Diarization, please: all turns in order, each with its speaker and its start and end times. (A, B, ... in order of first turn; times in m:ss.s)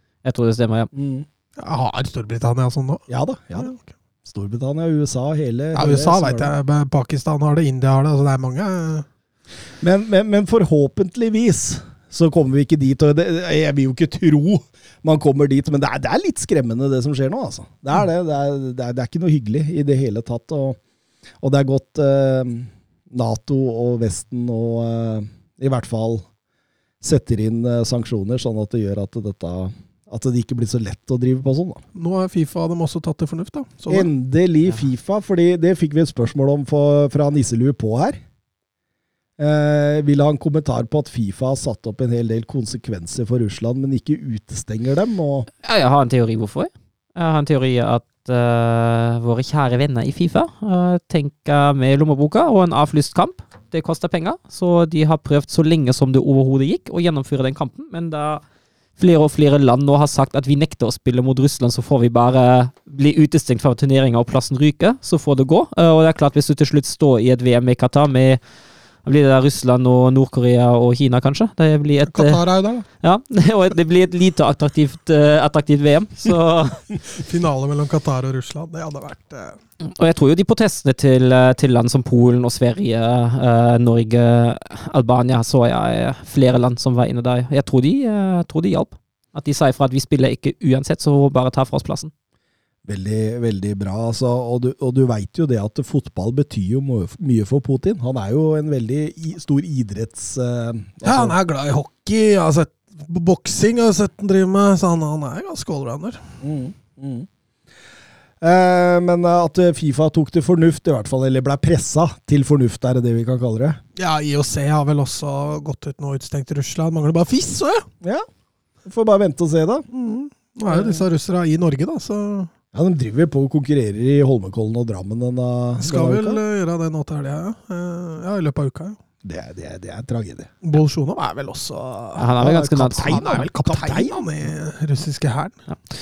0:00.2-0:00.9 A
0:00.9-0:01.2 B
0:01.6-0:03.0 C
0:03.1-0:06.5 B
0:05.8-0:09.1 C
0:09.8-0:20.8 B
0:21.4-0:26.2 B
0:27.0-0:31.8 B
0:32.0-0:34.1 C
0:33.9-0:38.2 B
0:39.4-0:45.5 B
0:45.6-0:58.4 A
0:59.0-1:08.4 A
1:09.0-1:12.4 A
1:12.1-1:12.9 C
1:13.0-1:16.8 A
1:17.2-1:19.6 C
1:19.8-1:32.1 A
1:32.8-1:41.4 B
1:41.0-1:46.2 C
1:46.4-1:47.3 B
1:48.4-1:53.8 B
1:54.0-1:57.9 C
1:58.8-1:59.9 B
1:59.9-2:02.5 C
2:00.7-2:01.0 B
2:02.7-2:06.4 B
2:05.8-2:09.0 C
2:09.2-2:10.5 B
2:10.6-2:12.3 C
2:12.2-2:13.2 A
2:12.4-2:14.2 B
2:13.0-2:15.6 C